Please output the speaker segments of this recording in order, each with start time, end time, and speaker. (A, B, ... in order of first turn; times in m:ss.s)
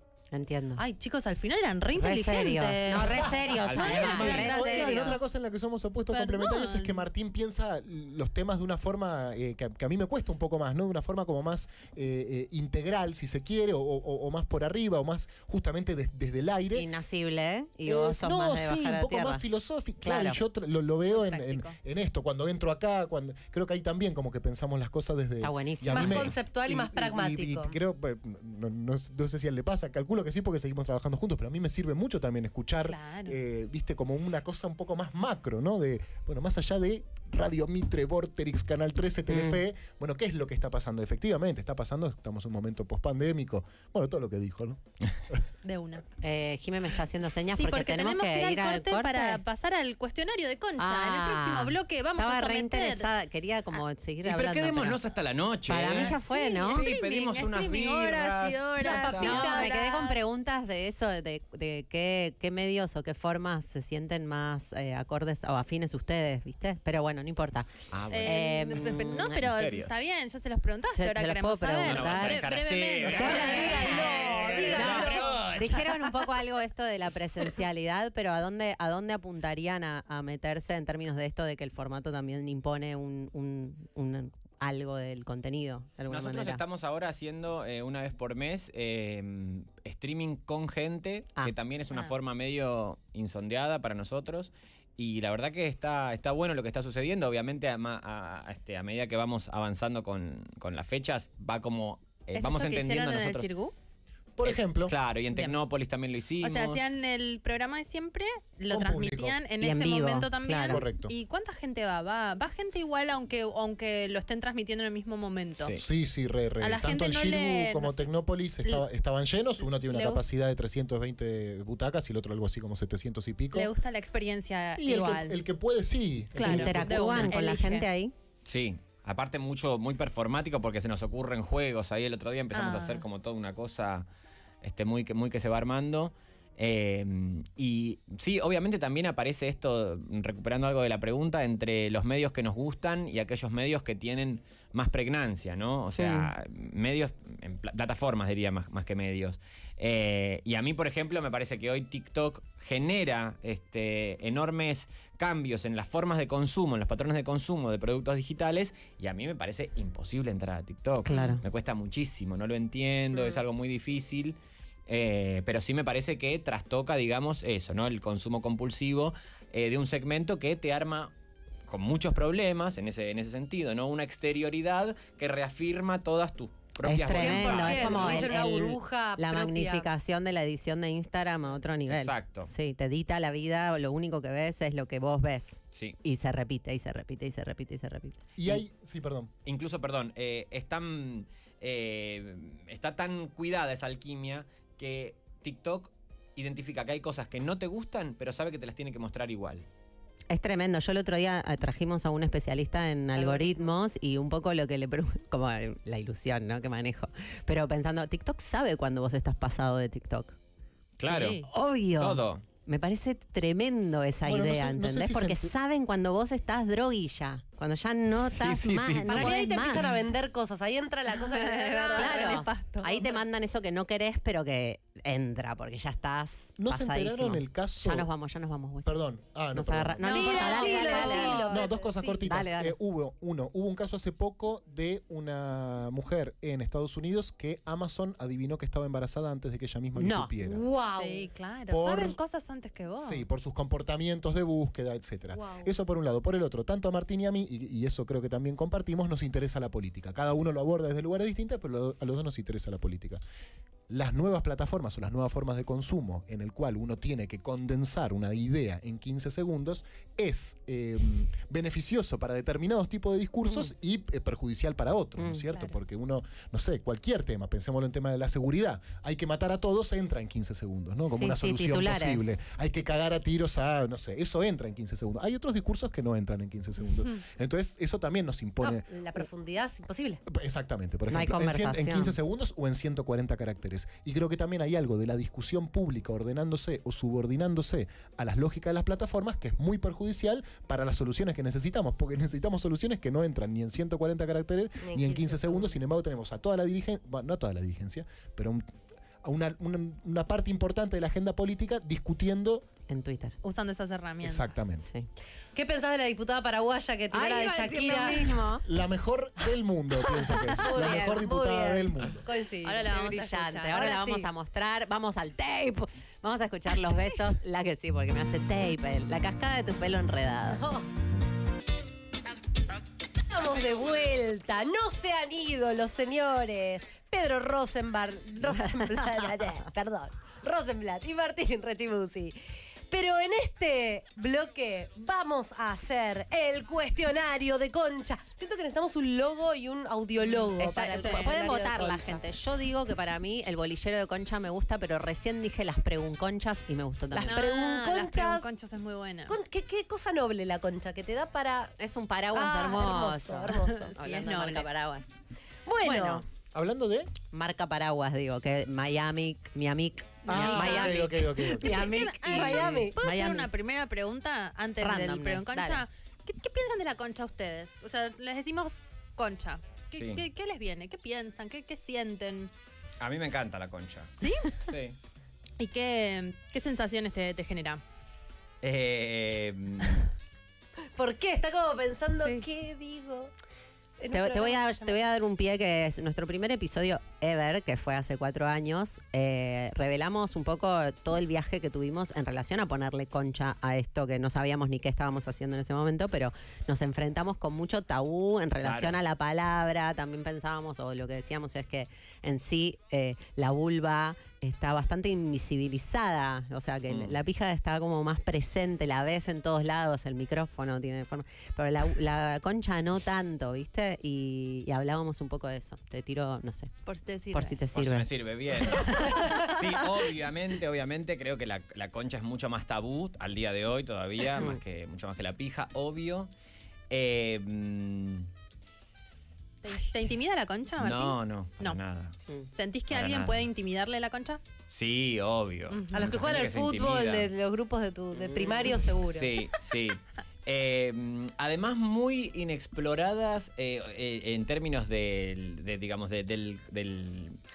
0:00.3-0:00.8 A
0:00.8-0:05.2 B
0:01.9-0:05.1 A
0:03.5-0:04.7 C
0:04.1-0:16.9 D
0:06.1-0:07.0 B
0:16.7-0:19.4 A
0:17.8-0:45.4 D
0:20.0-0:20.4 A
0:21.1-0:21.8 B
0:25.4-0:26.3 A
0:25.9-0:27.8 E
0:32.8-0:33.4 B
0:39.3-0:39.6 A
0:45.6-0:46.0 B
0:46.2-0:49.4 A
0:47.5-0:53.1 B
0:50.8-0:55.0 A
0:54.2-0:59.5 C
0:55.7-0:56.9 A
0:55.9-1:00.0 B
0:58.8-1:00.1 E
0:59.0-1:09.4 A
1:07.9-1:08.4 C
1:08.1-1:15.0 B
1:09.4-1:10.0 C
1:11.0-1:12.5 A
1:11.8-1:15.9 C
1:13.0-1:26.6 A
1:13.3-1:15.4 E
1:26.1-1:43.5 C
1:42.3-1:43.7 B
1:44.4-1:44.9 D
1:44.4-1:46.8 C
1:45.3-1:45.6 B
1:46.4-1:55.8 B
1:48.7-1:49.4 D
1:49.6-1:50.8 A
1:50.7-1:51.1 D
1:55.8-2:03.7 D
1:56.6-1:58.1 B
1:59.6-2:00.2 B
2:03.5-2:05.4 B
2:04.8-2:07.1 D
2:06.3-2:07.9 B
2:06.4-2:08.1 A
2:08.4-2:14.1 C
2:12.5-2:13.0 B
2:14.6-2:51.1 C
2:26.0-2:26.3 A
2:41.0-2:41.4 A
2:41.1-2:41.4 B
2:51.7-2:58.4 C
2:56.8-3:08.3 A
2:57.1-2:59.9 E
3:01.9-3:02.5 C
3:08.4-3:09.3 D
3:09.4-3:19.6 C
3:20.3-3:30.4 A
3:23.2-3:23.7 E
3:31.0-3:31.4 C
3:31.0-3:31.5 B
3:31.4-3:39.8 A
3:32.0-3:32.5 C
3:34.2-3:35.5 D
3:38.2-3:39.8 C
3:39.1-3:42.4 E
3:41.3-3:43.0 B
3:42.0-3:49.0 A
3:46.6-3:48.1 D
3:48.8-3:50.4 D
3:49.5-3:51.5 A
3:50.0-3:51.5 B
3:50.1-3:52.2 E
3:51.2-4:00.6 D
3:52.2-3:52.7 A
4:00.0-4:00.3 A
4:00.4-4:01.2 E
4:00.9-4:03.2 B
4:01.7-4:02.2 D
4:03.0-4:13.2 D
4:05.3-4:05.7 E
4:13.9-4:39.2 D
4:25.2-4:25.4 A
4:25.5-4:25.8 B
4:31.1-4:32.3 A
4:38.6-4:40.2 E
4:40.3-4:58.6 D
4:41.1-4:42.2 A
4:54.8-4:55.8 E
4:59.2-5:02.6 D
5:02.9-5:03.4 A
5:03.4-5:04.7 B
5:04.2-5:04.9 D
5:05.5-5:08.4 E
5:07.1-5:08.6 A
5:08.6-5:12.2 D
5:10.6-5:14.3 E
5:12.6-5:13.8 B
5:12.9-5:20.6 A
5:20.5-5:20.9 E
5:23.3-5:42.2 E
5:40.6-5:47.4 A
5:41.0-5:41.3 B
5:47.1-5:48.5 E
5:47.2-5:49.4 B
5:49.3-5:51.8 E
5:51.8-5:55.1 A
5:52.3-5:53.8 E
5:53.6-5:54.7 B
5:55.6-5:56.2 E
5:55.8-5:56.2 A
5:56.5-5:57.1 D
5:57.3-6:03.5 A
6:00.3-6:01.9 D
6:00.3-6:12.5 B
6:01.7-6:03.0 E
6:04.8-6:05.8 A
6:10.0-6:10.2 C
6:13.0-6:15.0 C
6:14.2-6:14.5 B
6:15.6-6:17.8 B
6:18.6-6:20.1 C
6:21.0-6:23.3 E
6:24.0-6:25.1 E
6:24.1-6:56.7 A
6:38.6-6:39.0 C
6:46.9-6:47.2 C
6:56.8-6:57.6 B
6:57.3-6:58.1 A
6:57.7-7:06.3 C
6:58.7-6:59.5 B
7:04.3-7:04.6 A
7:06.9-7:08.3 C
7:09.6-7:11.8 B
7:10.8-7:12.2 C
7:12.5-7:14.4 B
7:12.9-7:13.5 C
7:14.7-7:17.3 C
7:15.7-7:16.1 B
7:15.9-7:19.4 E
7:18.2-7:18.8 A
7:19.0-7:27.4 C